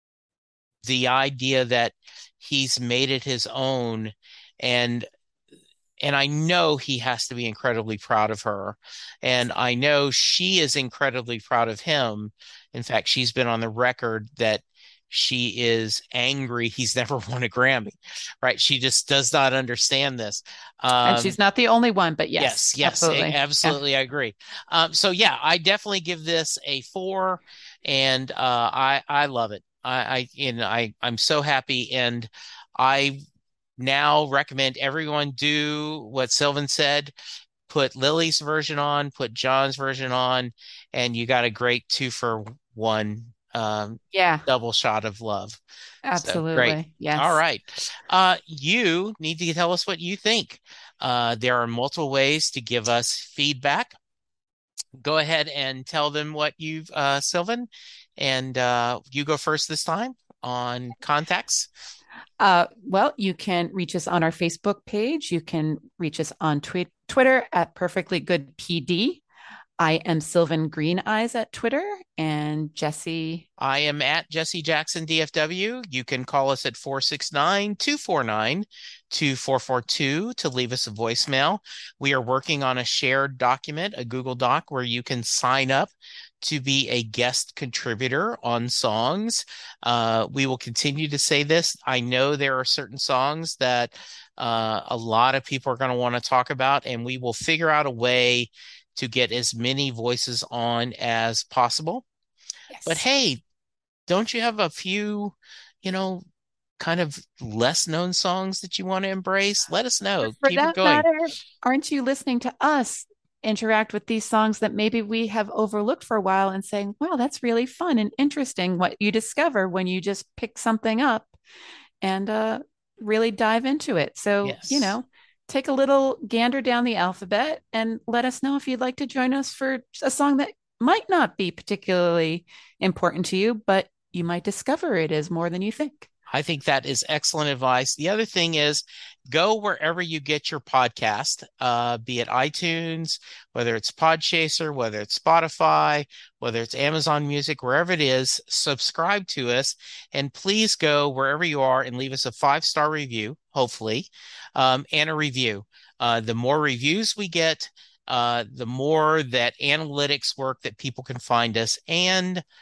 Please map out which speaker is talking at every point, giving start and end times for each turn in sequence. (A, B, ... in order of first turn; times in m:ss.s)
0:00.8-0:05.1 A
0:06.0-0:21.4 A
0:21.0-0:23.8 B
0:22.4-0:33.2 A
0:33.8-0:37.1 A
0:37.7-0:45.6 A
0:44.1-0:44.5 B
0:46.1-0:47.4 B
0:46.2-0:54.0 A
0:55.0-1:01.7 A
1:02.4-1:09.2 B
1:09.8-1:13.5 B
1:13.6-1:42.0 A
1:42.7-1:43.0 B
1:42.9-1:43.4 A
1:44.1-1:46.2 A
1:46.8-1:51.1 A
1:50.2-2:01.3 B
2:02.0-2:16.1 B
2:04.4-2:04.9 A
2:16.3-2:42.4 A